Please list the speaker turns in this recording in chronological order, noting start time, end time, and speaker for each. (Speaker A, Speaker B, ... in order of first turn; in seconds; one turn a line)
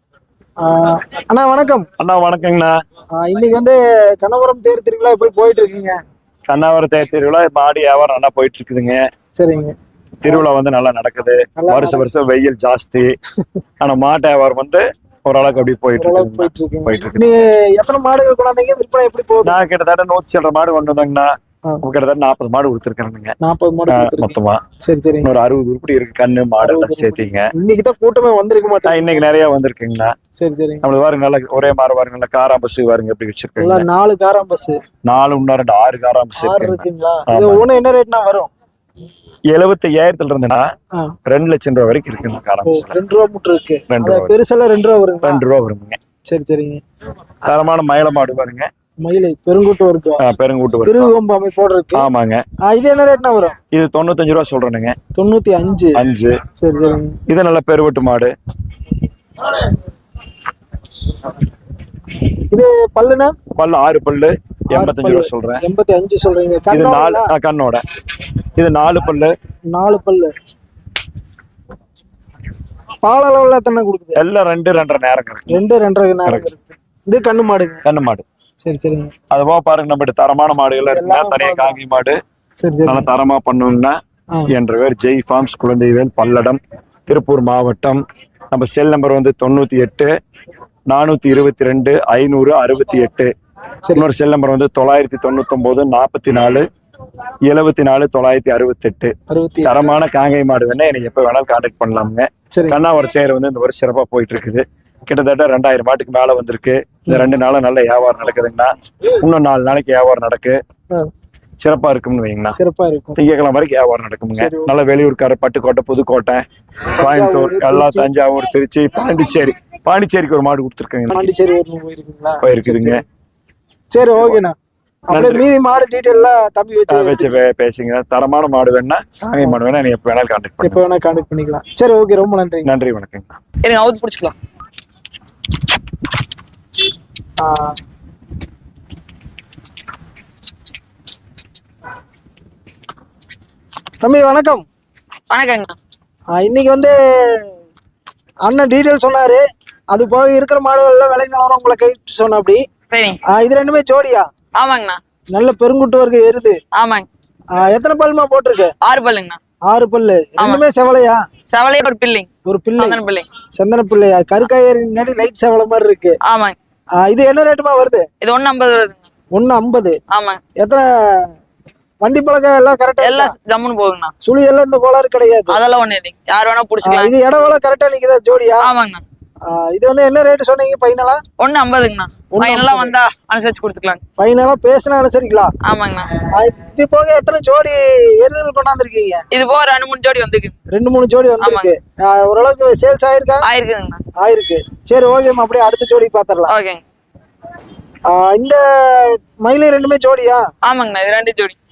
Speaker A: 0.6-1.9
Speaker B: 2.0-2.7
Speaker A: 3.1-6.0
Speaker B: 6.5-9.0
Speaker A: 9.3-9.7
Speaker B: 10.2-13.1
Speaker A: 11.6-12.0
Speaker B: 13.8-17.3
Speaker A: 16.0-19.6
Speaker B: 19.4-21.3
Speaker B: 21.8-23.3
Speaker A: 23.4-25.3
Speaker B: 23.9-24.6
Speaker B: 25.2-27.5
Speaker A: 26.6-29.2
Speaker B: 28.8-30.1
Speaker A: 30.4-30.9
Speaker B: 30.8-33.9
Speaker A: 33.6-34.8
Speaker B: 35.0-37.7
Speaker A: 36.4-38.5
Speaker B: 39.5-40.6
Speaker B: 41.2-42.9
Speaker A: 42.6-45.4
Speaker B: 43.9-44.3
Speaker B: 45.2-46.0
Speaker A: 46.3-46.8
Speaker B: 47.5-48.7
Speaker A: 49.0-50.2
Speaker B: 50.2-51.1
Speaker A: 50.9-52.1
Speaker B: 52.0-52.4
Speaker A: 52.6-53.5
Speaker B: 53.7-55.0
Speaker A: 55.1-56.0
Speaker B: 56.0-56.4
Speaker A: 56.6-57.2
Speaker B: 57.3-58.3
Speaker A: 62.5-63.3
Speaker B: 63.5-65.6
Speaker A: 64.7-67.3
Speaker B: 66.7-67.8
Speaker B: 68.5-69.3
Speaker A: 69.7-70.3
Speaker A: 73.0-74.2
Speaker B: 74.2-75.6
Speaker A: 75.5-77.8
Speaker B: 77.8-78.2
Speaker A: 78.6-79.1
Speaker B: 79.3-82.2
Speaker A: 80.9-81.8
Speaker A: 82.6-83.1
Speaker B: 82.9-83.9
Speaker B: 84.5-88.0
Speaker B: 88.5-90.1
Speaker B: 90.9-93.3
Speaker B: 93.9-96.6
Speaker B: 97.5-99.1
Speaker A: 99.3-99.9
Speaker B: 99.6-110.6
Speaker A: 102.5-102.8
Speaker A: 107.1-107.3
Speaker B: 111.6-112.6
Speaker A: 112.5-113.2
Speaker B: 113.2-116.4
Speaker A: 114.3-114.7
Speaker A: 117.0-118.1
Speaker B: 117.0-121.3
Speaker A: 121.1-123.0
Speaker B: 122.4-123.0
Speaker A: 123.9-124.5
Speaker A: 125.1-127.3
Speaker B: 125.1-125.4
Speaker B: 126.9-130.8
Speaker A: 130.6-132.7
Speaker B: 132.6-133.3
Speaker C: 133.6-134.3
Speaker A: 137.4-137.7
Speaker A: 144.0-144.6
Speaker C: 145.3-145.8
Speaker A: 146.3-147.5
Speaker A: 148.4-152.6
Speaker C: 152.9-153.2
Speaker A: 153.3-154.2
Speaker C: 154.6-155.0
Speaker A: 155.3-156.6
Speaker C: 156.7-157.1
Speaker A: 157.5-158.7
Speaker C: 158.8-159.4
Speaker A: 159.7-161.2
Speaker C: 160.4-160.6
Speaker C: 161.5-163.3
Speaker A: 162.4-163.0
Speaker A: 163.5-166.2
Speaker C: 166.2-166.6
Speaker A: 167.0-168.0
Speaker C: 168.2-169.0
Speaker A: 169.3-169.9
Speaker C: 170.1-170.4
Speaker A: 170.6-171.3
Speaker A: 172.0-173.3
Speaker C: 173.0-174.1
Speaker A: 174.2-175.6
Speaker C: 175.5-177.1
Speaker A: 176.8-178.7
Speaker C: 178.6-179.0
Speaker A: 179.5-181.2
Speaker C: 181.4-184.0
Speaker A: 182.3-182.9
Speaker A: 184.2-185.5
Speaker C: 185.6-186.2
Speaker A: 186.3-189.2
Speaker C: 189.3-190.6
Speaker A: 190.7-193.4
Speaker C: 191.4-191.7
Speaker C: 193.4-194.0
Speaker A: 194.2-196.5
Speaker C: 196.5-196.8
Speaker A: 198.1-200.4
Speaker C: 200.6-201.6